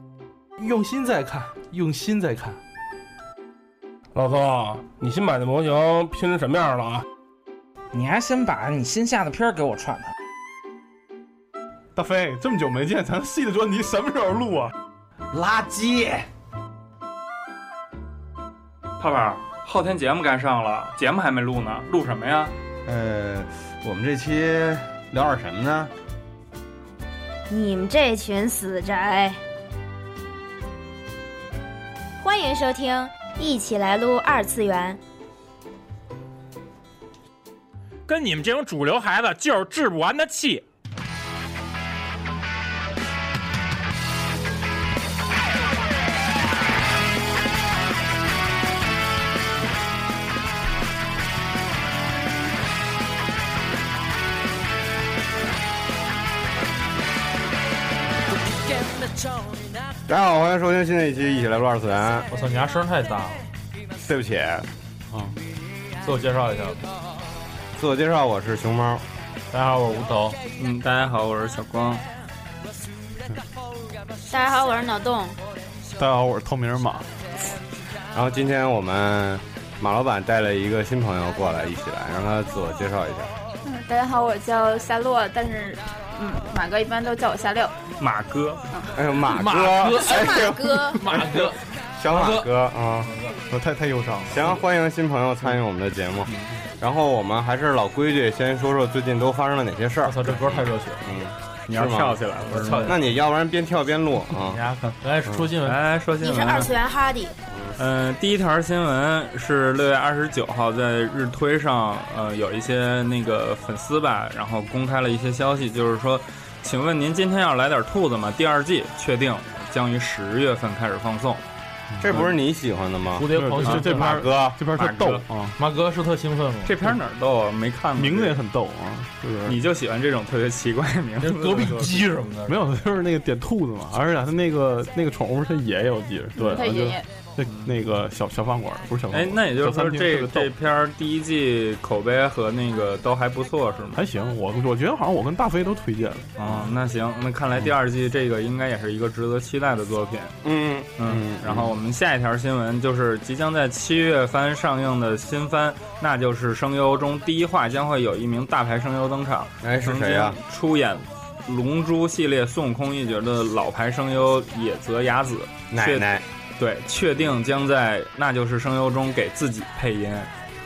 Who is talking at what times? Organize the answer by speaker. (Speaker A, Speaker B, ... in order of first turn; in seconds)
Speaker A: 0.6-2.6, 62.3-63.5, 66.0-66.8, 69.5-70.4, 89.2-93.4, 100.0-101.2, 102.5-103.1, 104.3-105.8, 123.2-124.3, 125.6-126.7, 131.2-132.7, 136.4-136.6
Speaker B: 4.1-7.0
Speaker C: 7.9-10.1, 15.3-16.1
Speaker D: 11.9-14.7, 76.0-77.1, 93.5-94.5, 121.9-122.3, 123.2-125.5, 128.0-129.6, 132.4-140.5, 143.9-146.3
Speaker E: 19.0-22.5, 70.6-72.0, 88.0-88.6, 101.7-103.0, 105.6-106.7, 107.8-121.4, 124.6-125.2, 126.6-128.4, 129.4-132.0, 137.5-137.8, 139.1-144.0, 146.4-150.4, 151.0-170.3
Speaker F: 22.9-25.9, 60.1-62.3, 64.0-64.7, 67.8-69.0, 78.1-83.3, 88.9-93.1, 94.3-102.2, 102.9-104.6, 122.0-124.6, 150.4-151.7, 159.6-160.4, 165.7-166.2
Speaker G: 27.5-29.4, 32.2-35.0, 74.3-75.4, 89.9-91.0, 106.2-107.3
Speaker H: 38.1-40.6
Speaker I: 83.6-87.7, 136.5-137.1